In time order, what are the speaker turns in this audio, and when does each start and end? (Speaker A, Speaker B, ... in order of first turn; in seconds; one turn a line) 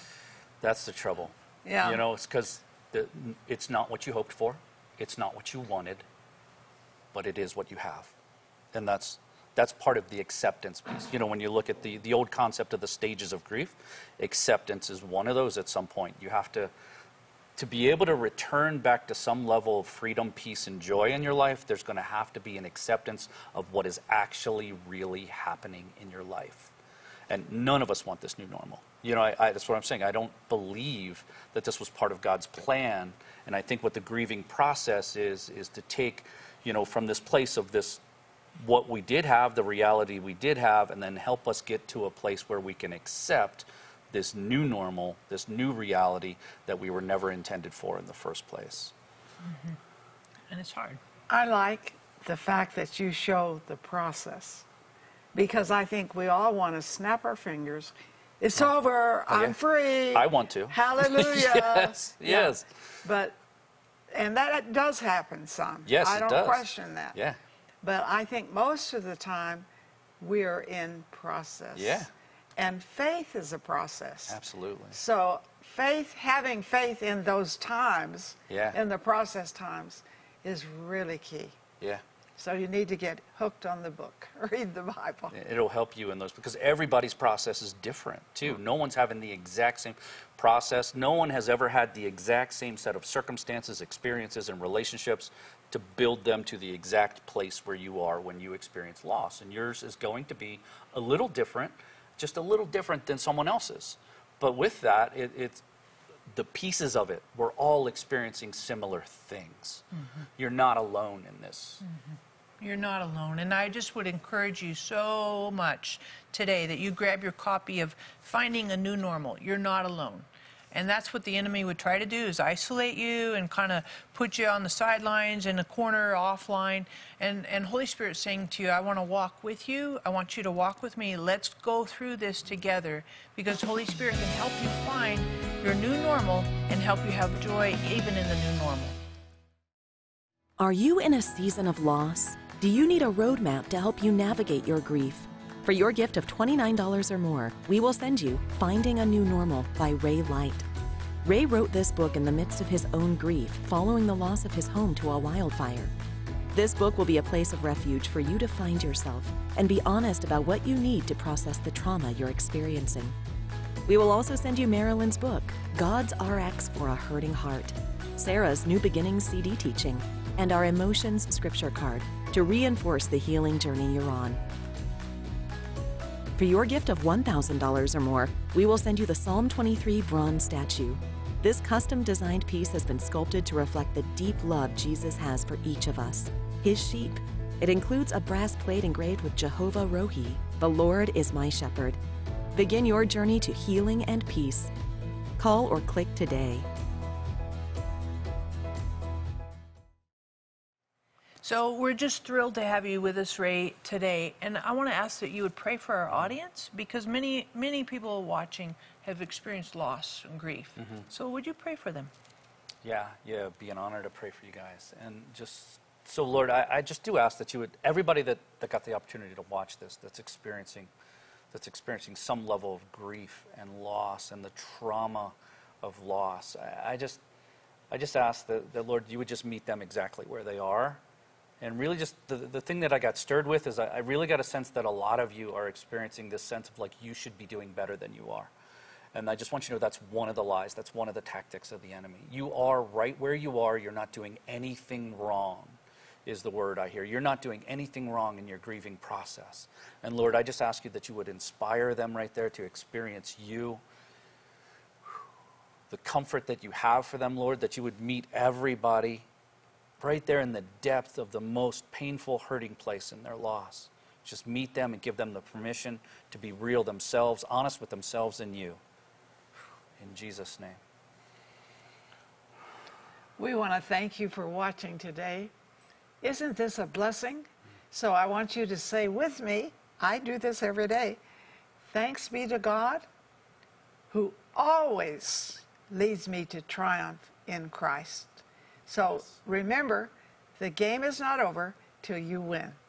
Speaker A: 0.6-6.0
Speaker B: 1.6-2.0
Speaker A: 7.1-8.1
Speaker A: 8.7-16.7
Speaker A: 17.6-26.7
Speaker A: 27.3-38.0
Speaker A: 38.6-48.9
Speaker C: 49.4-49.8
Speaker C: 50.5-51.0
Speaker B: 51.3-54.6
Speaker B: 55.3-63.4
Speaker A: 59.3-59.6
Speaker A: 60.1-62.7
Speaker B: 64.1-67.2
Speaker A: 65.8-67.4
Speaker B: 67.8-69.7
Speaker B: 70.2-74.4
Speaker A: 71.7-72.1
Speaker A: 74.3-75.0
Speaker B: 74.9-81.6
Speaker A: 78.5-78.8
Speaker B: 82.4-85.3
Speaker A: 85.3-105.6
Speaker A: 106.3-109.8
Speaker A: 110.4-111.8
Speaker C: 111.8-139.0
Speaker D: 140.6-150.7
Speaker D: 151.2-155.9
Speaker D: 156.5-163.2
Speaker D: 163.8-174.4
Speaker D: 176.4-192.0
Speaker D: 192.5-194.7
Speaker D: 195.4-196.7
Speaker C: 201.4-212.1
Speaker A: 210.8-211.1
Speaker A: 212.8-220.9
Speaker A: 221.5-227.2
Speaker A: 227.9-231.0
Speaker A: 231.6-238.5
Speaker A: 239.1-253.8
Speaker A: 255.9-259.2
Speaker A: 260.0-268.8
Speaker A: 270.0-270.8
Speaker B: 273.4-275.5
Speaker B: 276.2-281.2
Speaker B: 281.9-283.0
Speaker B: 284.1-292.8